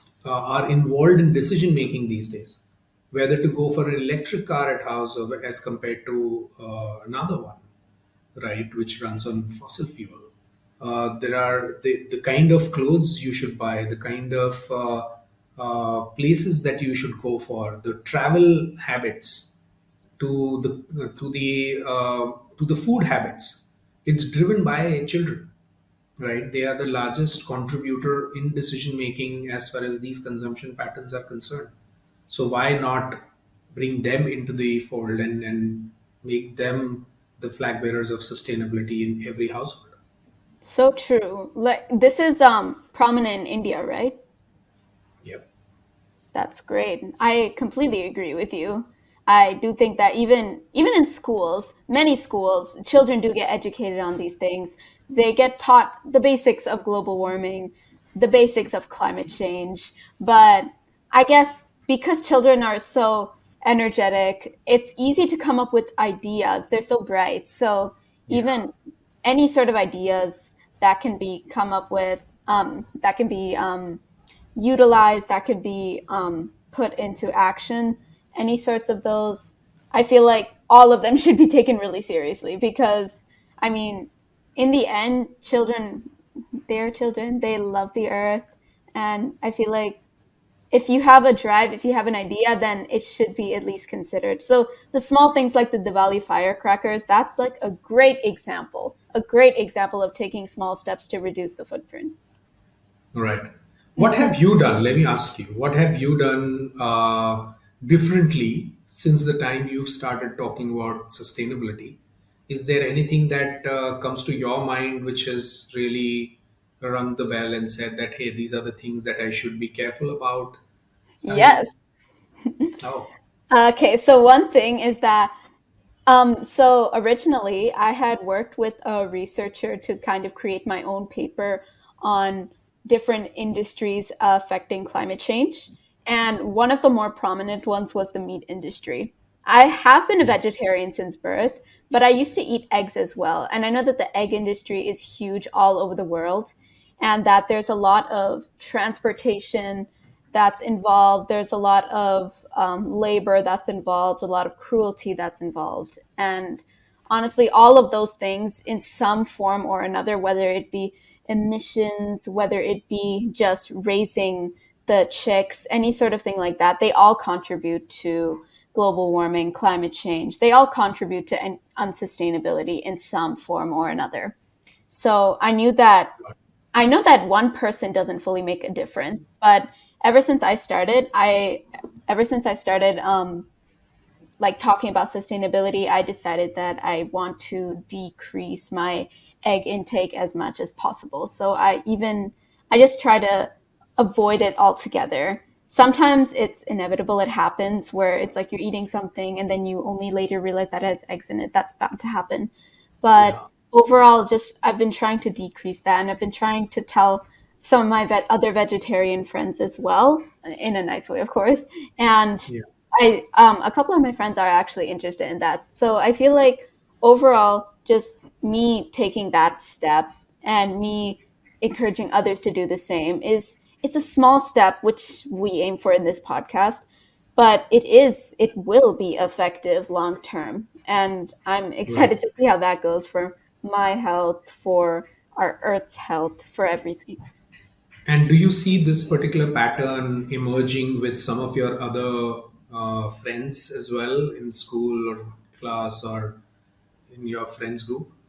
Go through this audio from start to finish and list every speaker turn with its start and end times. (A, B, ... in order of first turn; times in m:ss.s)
0:00.2-0:07.6 A
0:08.4-0:19.6 A
0:20.2-0:25.5 A
0:26.2-0:31.7 A
0:32.3-0:33.2 A
0:33.7-0:40.0 A
0:40.6-0:44.2 B
0:46.3-1:14.0 B
1:08.3-1:08.6 A
1:14.6-1:26.1 B
1:26.7-1:30.0 B
1:30.7-1:42.1 B
1:43.1-2:00.6 A
1:44.0-1:44.3 B
2:01.2-2:01.7 B
2:01.3-2:01.6 A
2:02.4-2:02.7 B
2:02.8-2:03.1 A
2:03.5-2:05.3 B
2:06.1-2:54.4 B
2:54.9-2:56.2 B
2:56.7-3:03.5 B
3:04.4-3:46.8 B
3:23.2-3:23.5 A
3:47.4-3:57.2 B
3:51.9-3:52.1 A
3:58.0-4:06.4 A
4:07.1-4:08.1 A